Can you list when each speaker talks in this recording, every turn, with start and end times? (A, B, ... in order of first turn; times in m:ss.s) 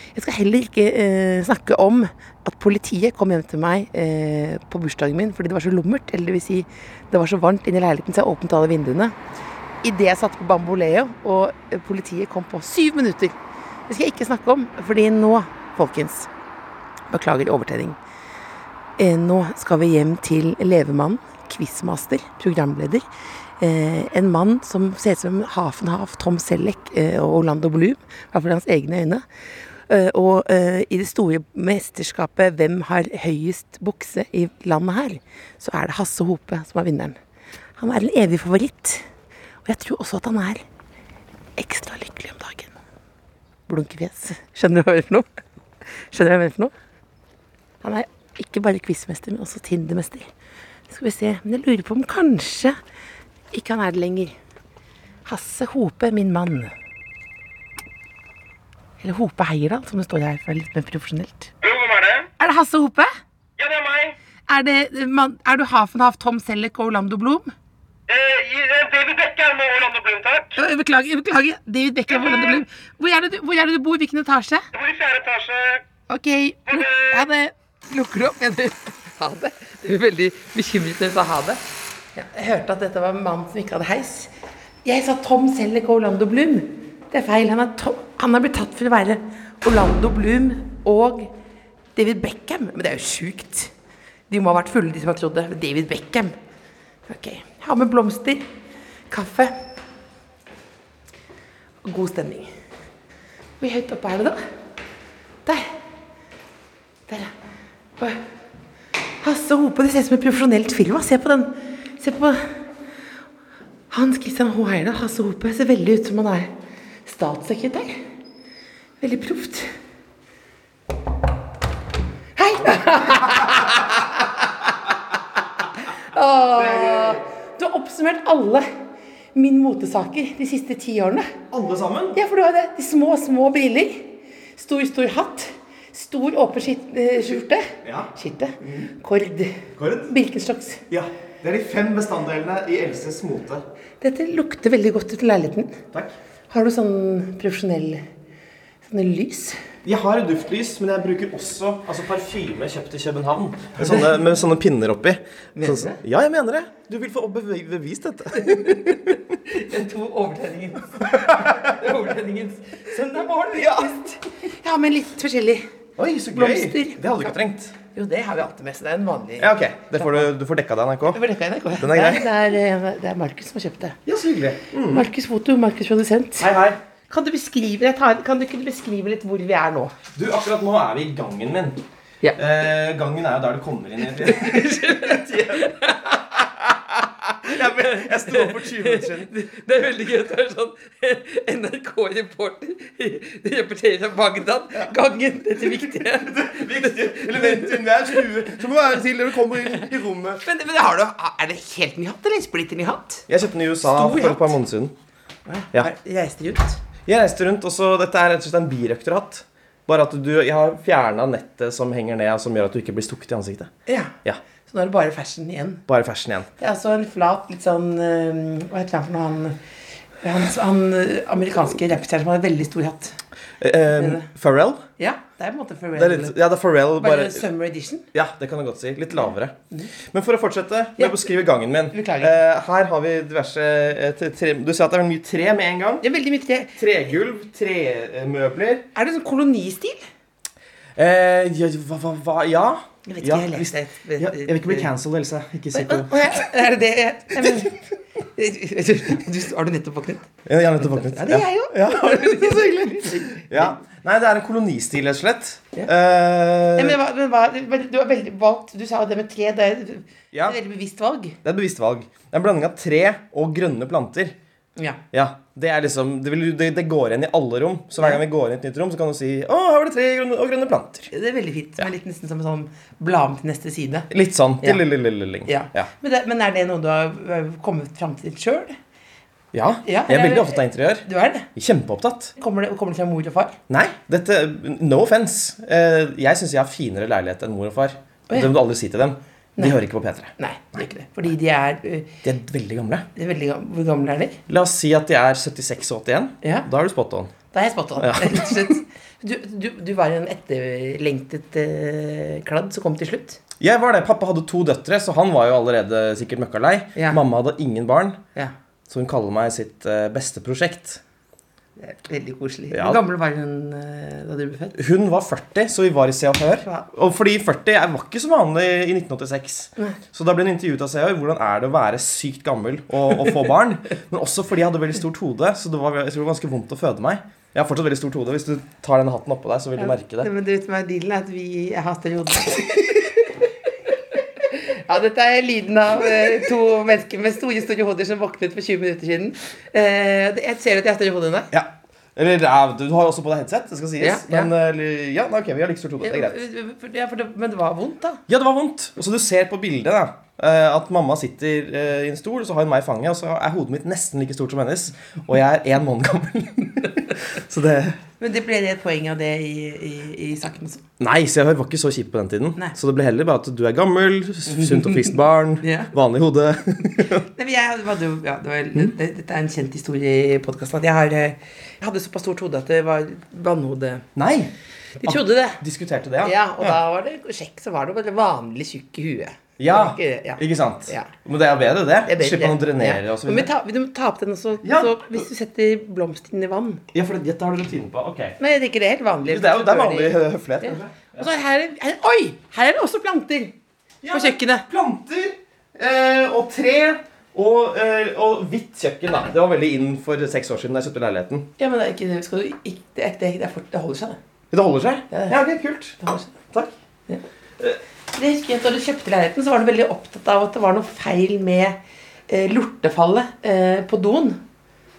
0:00.2-0:09.2 A
0:09.8-0:13.4 A
0:13.9-0:16.3 A
0:17.1-0:18.0 A
0:19.0-0:23.0 A
0:23.6-0:29.2 A
0:29.9-0:37.2 A
0:37.8-0:39.0 A
0:39.7-0:40.6 A
0:41.6-0:42.7 A
0:43.7-0:45.3 A
0:46.1-0:46.7 A
0:47.8-0:50.3 A
0:50.9-0:52.8 A
0:53.5-0:54.4 A
0:55.2-0:56.7 A
0:59.0-1:01.5 A
1:01.6-1:02.3 B
1:02.4-1:03.1 A
1:03.6-1:04.1 B
1:04.5-1:07.5 A
1:08.1-1:10.6 B
1:10.6-1:14.7 A
1:12.1-1:12.6 B
1:14.7-1:15.8 B
1:16.1-1:21.6 A
1:16.7-1:17.2 B
1:22.2-1:24.3 A
1:24.8-1:31.3 A
1:32.0-1:33.7 A
1:34.3-1:36.3 A
1:37.1-1:38.5 A
1:39.1-1:39.6 A
1:41.8-1:42.5 A
1:43.6-1:44.4 A
1:49.2-1:52.6 A
1:53.9-1:56.5 A
1:57.0-1:58.1 A
1:59.0-1:59.7 A
2:02.4-2:04.8 A
2:03.0-2:03.6 C
2:05.8-2:08.6 A
2:06.5-2:07.2 C
2:09.4-2:11.3 A
2:11.5-2:12.2 C
2:12.2-2:20.8 A
2:17.8-2:18.1 C
2:18.6-2:18.9 C
2:19.8-2:20.1 C
2:20.9-2:23.6 C
2:24.0-2:25.8 A
2:26.5-2:28.0 A
2:28.8-2:29.6 A
2:29.8-2:39.2 C
2:33.8-2:34.1 A
2:35.6-2:36.0 A
2:38.5-2:45.7 A
2:41.1-2:41.8 C
2:43.5-2:44.0 C
2:46.0-2:47.7 C
2:46.3-2:47.4 A
2:47.9-2:50.3 A
2:49.4-2:51.2 C
2:51.1-2:54.0 A
2:51.8-2:52.3 C
2:54.1-2:55.1 C
2:54.9-2:56.5 A
2:56.4-2:56.8 C
2:57.1-2:59.9 A
3:00.2-3:01.8 C
3:02.4-3:05.8 C
3:04.1-3:06.4 A
3:06.4-3:09.3 C
3:07.4-3:18.1 A
3:15.7-3:20.4 C
3:20.4-3:23.3 A
3:23.3-3:25.0 C
3:23.8-3:24.6 A
3:25.5-3:26.8 A
3:27.1-3:33.7 C
3:33.9-3:34.2 A
3:34.7-3:35.8 A
3:35.9-3:36.5 C
3:36.6-3:39.6 A
3:40.2-3:43.2 A
3:43.6-3:44.8 C
3:43.9-3:44.3 A
3:45.0-3:46.4 A
3:46.0-3:47.4 C
3:47.0-3:48.1 A
3:48.1-3:56.0 C
3:51.0-3:51.3 A
3:51.9-3:52.4 A
3:56.0-3:56.8 A
3:56.8-3:58.9 C
3:59.0-4:00.0 A
4:01.0-4:06.4 C
4:03.1-4:04.9 A
4:05.7-4:07.8 A
4:08.4-4:10.3 A
4:10.5-4:17.0 C
4:10.8-4:13.5 A
4:16.7-4:21.4 A
4:20.3-4:20.6 C
4:21.4-4:24.4 C
4:25.1-4:31.1 C
4:31.1-4:34.1 A
4:34.1-4:35.9 C
4:35.5-4:38.8 A
4:39.5-4:42.3 C
4:39.8-4:41.5 A
4:42.4-4:43.6 A
4:43.7-4:50.3 C
4:50.4-4:52.2 A
4:52.2-4:53.1 C
4:53.2-4:54.4 A
4:54.5-4:57.3 C
4:56.4-4:56.7 A
4:57.5-5:03.4 A
4:58.0-4:58.8 C
5:03.6-5:08.2 C
5:07.0-5:07.2 A
5:08.9-5:11.0 C
5:11.8-5:14.8 A
5:12.7-5:13.0 C
5:14.8-5:30.3 C
5:16.6-5:16.9 A
5:29.8-5:33.4 A
5:34.4-5:41.5 A
5:41.5-5:46.4 C
5:44.0-5:44.5 A
5:46.0-5:48.2 A
5:48.3-5:58.0 C
5:58.2-6:00.8 A
6:01.0-6:07.2 C
6:04.5-6:05.9 A
6:07.2-6:14.1 A
6:14.2-6:16.8 C
6:15.0-6:15.6 A
6:16.2-6:21.1 A
6:19.6-6:23.5 C
6:22.0-6:26.8 A
6:24.6-6:25.2 C
6:26.9-6:28.4 C
6:28.4-6:33.5 A
6:29.2-6:31.3 C
6:34.0-6:41.5 C
6:34.1-6:34.6 A
6:41.6-6:44.2 A
6:44.5-6:46.7 C
6:45.1-6:45.4 A
6:46.0-6:46.3 A
6:48.1-6:51.8 A
6:52.3-6:54.4 A